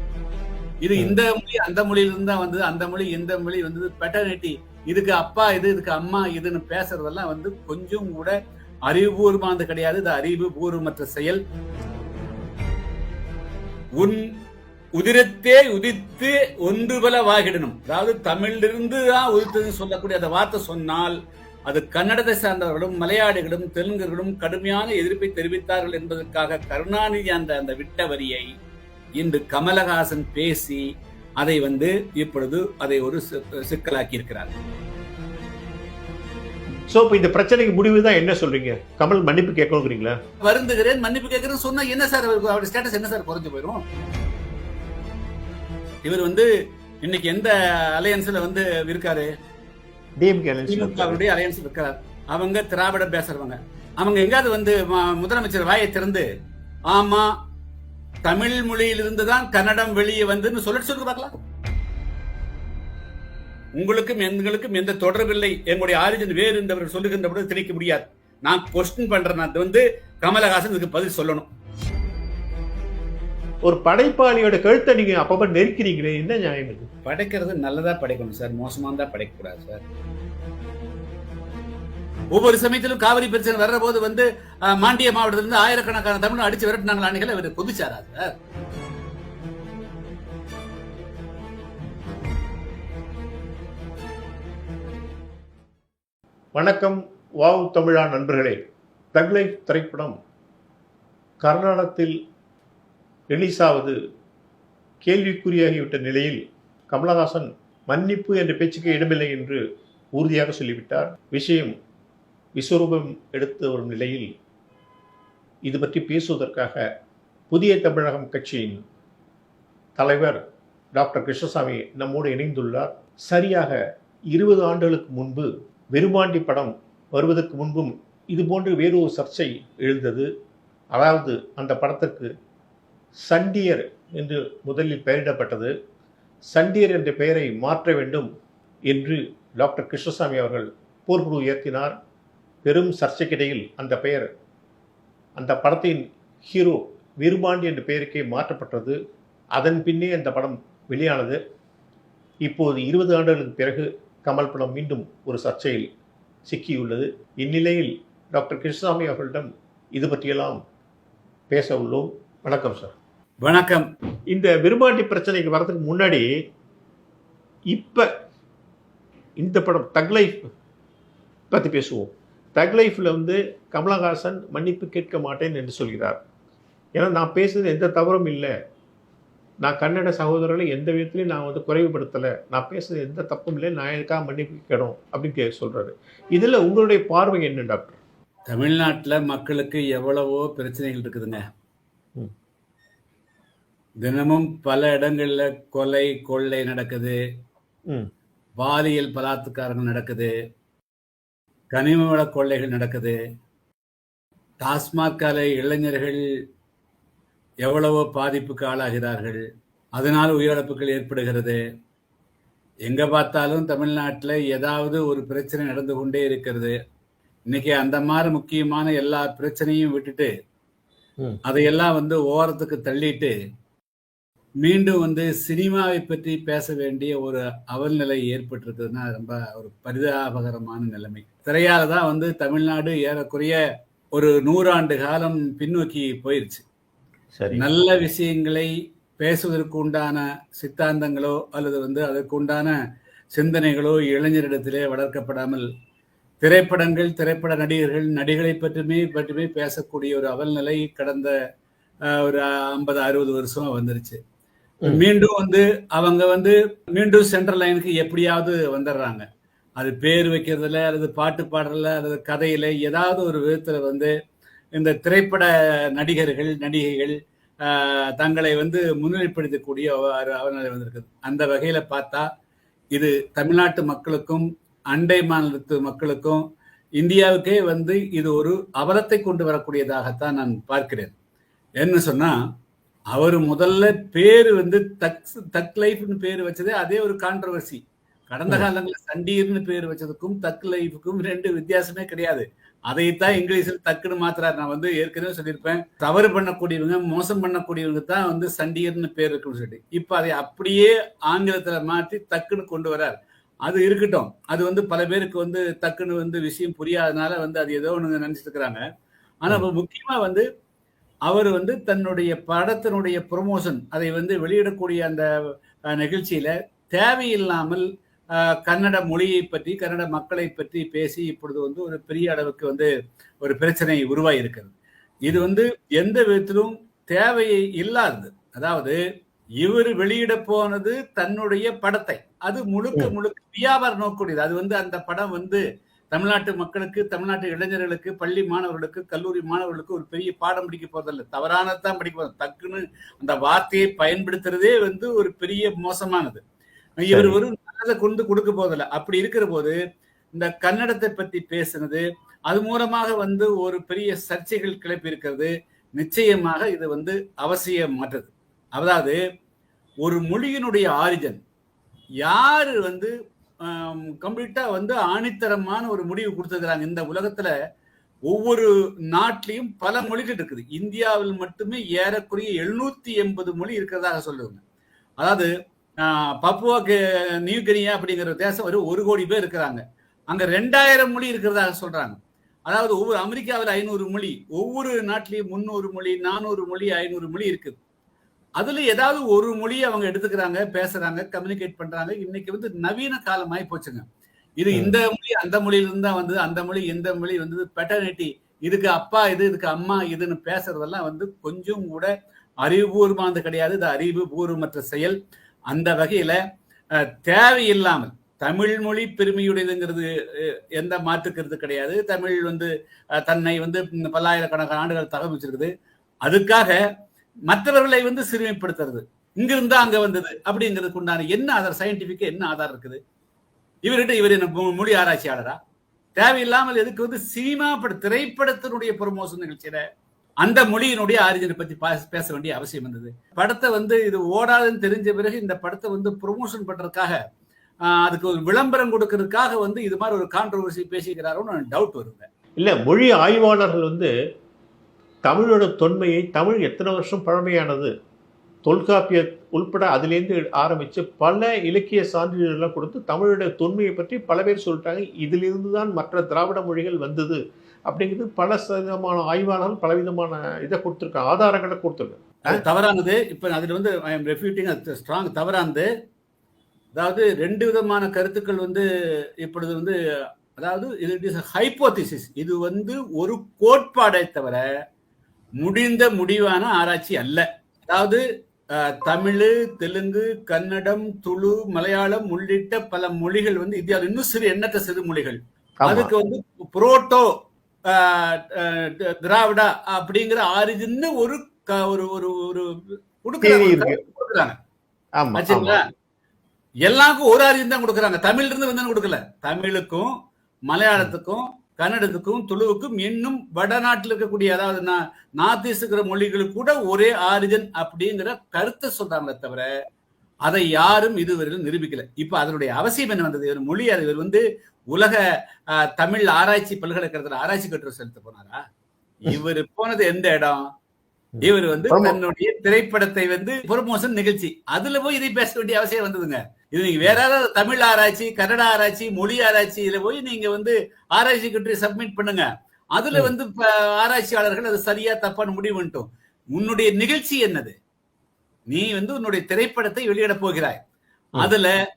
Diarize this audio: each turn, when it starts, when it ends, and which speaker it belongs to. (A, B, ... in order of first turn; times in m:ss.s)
0:00.8-0:11.4 A
0:14.0-0:14.3 A
0:15.0-0:21.2 A
0:21.7-0:28.5 A
0:29.2-0:30.8 A
0:31.4-0:34.5 A
0:36.9-0:40.2 B
0:40.4-0:43.8 A
0:46.0-0:49.3 A
0:50.2-0:51.2 B
0:50.7-0:56.2 A
0:56.9-0:57.3 A
0:58.2-1:01.3 A
1:03.7-1:11.5 A
1:13.6-1:16.9 B
1:17.0-1:19.8 A
1:22.3-1:28.3 A
1:36.5-1:38.6 B
1:39.1-1:40.2 B
1:41.4-1:42.2 B
1:43.3-1:44.0 B
1:45.0-1:49.6 B
1:50.1-1:51.7 B
1:52.5-1:54.3 B
1:55.6-1:56.8 B
1:57.5-1:58.8 B
2:00.0-2:00.4 B
2:00.9-2:03.8 B
2:04.3-2:10.3 B
2:10.9-2:12.3 B
2:13.2-2:15.7 B
2:16.5-2:18.3 B
2:18.9-2:21.9 B
2:22.6-2:24.3 B
2:25.4-2:29.0 B
2:29.5-2:31.4 B
2:32.4-2:35.9 B
2:36.4-2:40.6 B
2:41.5-2:42.9 B
2:43.4-2:43.8 A
2:44.3-2:46.2 B
2:47.7-2:48.1 B
2:49.4-2:50.4 B
2:51.5-2:56.2 B
2:56.9-2:58.5 B
2:59.6-3:08.0 B
3:08.5-3:11.4 A
3:14.0-3:17.2 A
3:18.6-3:20.3 A
3:21.7-3:23.2 A
3:24.6-3:26.2 A
3:27.6-3:29.4 A
3:30.0-3:31.6 A
3:32.8-3:36.8 A
3:37.5-3:40.3 A
3:41.4-3:43.3 A
3:44.6-3:53.6 A
3:54.1-3:56.6 A
3:57.3-3:57.6 B
3:57.5-4:02.7 A
4:03.3-4:05.7 A
4:06.4-4:11.3 A
4:12.0-4:14.2 A
4:14.8-4:19.2 A
4:19.8-4:24.1 A
4:24.8-4:32.3 A
4:32.9-4:36.4 A
4:37.0-4:41.1 A
4:41.8-4:42.4 A
4:43.1-5:08.8 A
5:09.4-5:10.4 A
5:11.2-5:22.9 A
5:23.4-5:24.7 A
5:25.2-5:29.0 A
5:29.6-5:46.4 A
5:47.0-5:49.8 A
5:47.1-5:47.4 B
5:50.3-5:59.2 A
6:00.0-6:01.4 A
6:02.2-6:07.5 A
6:08.3-6:14.6 A
6:15.2-6:27.8 A
6:28.6-6:34.0 A
6:34.6-6:42.1 A
6:42.6-6:45.2 A
6:45.7-6:46.4 A
6:46.9-6:55.7 A
6:56.2-6:56.8 A
6:57.5-7:03.0 A
7:03.8-7:05.6 A
7:06.2-7:09.8 A
7:10.4-7:17.2 A
7:17.8-7:22.3 A
7:22.6-7:24.1 B
7:25.2-7:27.9 B
7:28.6-7:42.6 B
7:42.5-7:45.9 A
7:47.0-7:48.8 A
7:49.4-7:50.0 A
7:50.6-7:54.6 A
7:55.6-8:07.3 A
8:05.8-8:06.1 B
8:07.9-8:12.7 A
8:13.2-8:14.5 A
8:13.4-8:14.0 B
8:15.2-8:15.8 B
8:15.3-8:15.8 A
8:16.8-8:20.1 A
8:20.7-8:29.7 A
8:30.4-8:38.6 A
8:39.2-8:40.7 A
8:41.3-8:42.2 B
8:41.4-8:57.7 A
8:58.7-9:00.8 A
9:01.4-9:01.8 A